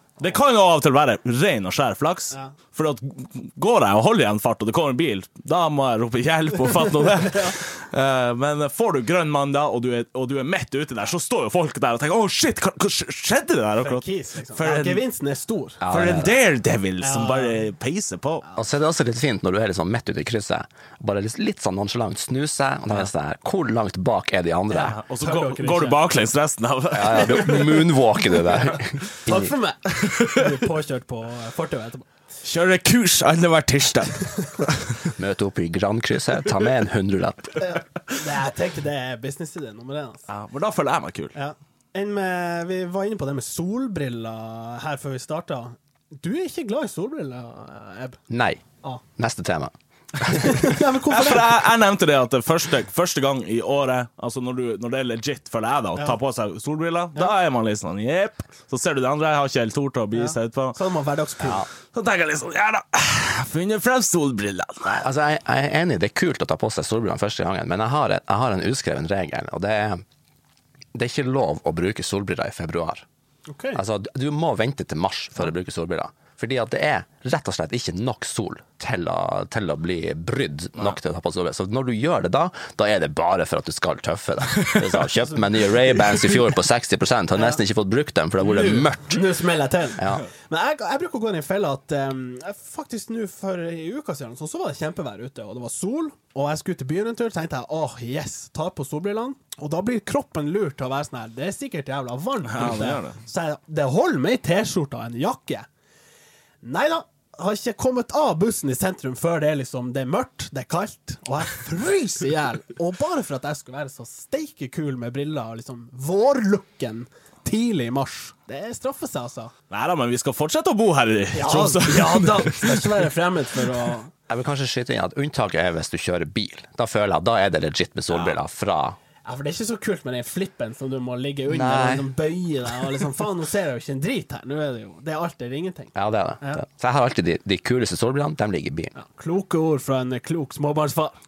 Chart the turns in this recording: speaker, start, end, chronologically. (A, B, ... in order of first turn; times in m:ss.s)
0:00.2-0:15.0 A
0:07.2-0:07.5 B
0:13.8-0:15.8 B
0:15.8-0:16.4 C
0:15.9-0:18.4 A
0:17.0-0:17.7 B
0:18.6-0:25.0 C
0:24.7-0:26.0 B
0:24.9-0:27.9 A
0:26.9-0:29.5 C
0:27.1-0:27.8 B
0:29.2-0:32.1 B
0:30.0-0:30.6 A
0:32.4-0:35.1 A
0:35.2-0:37.6 C
0:37.6-0:40.2 B
0:40.3-0:41.3 A
0:41.3-0:48.2 B
0:48.3-0:50.7 C
0:50.3-0:51.5 B
0:51.1-1:00.8 A
1:00.1-1:01.6 B
1:01.4-1:01.7 C
1:01.9-1:05.0 A
1:04.8-1:10.0 C
1:10.9-1:13.0 C
1:13.5-1:13.8 B
1:13.7-1:29.4 C
1:24.6-1:24.8 A
1:25.0-1:26.5 B
1:28.4-1:45.7 B
1:30.0-1:30.2 C
1:42.5-1:43.2 A
1:46.6-1:59.5 B
1:59.7-2:03.0 A
2:01.3-2:04.1 B
2:04.3-2:09.0 C
2:09.2-2:16.6 B
2:11.5-2:12.1 C
2:15.9-2:18.9 C
2:18.9-2:21.2 B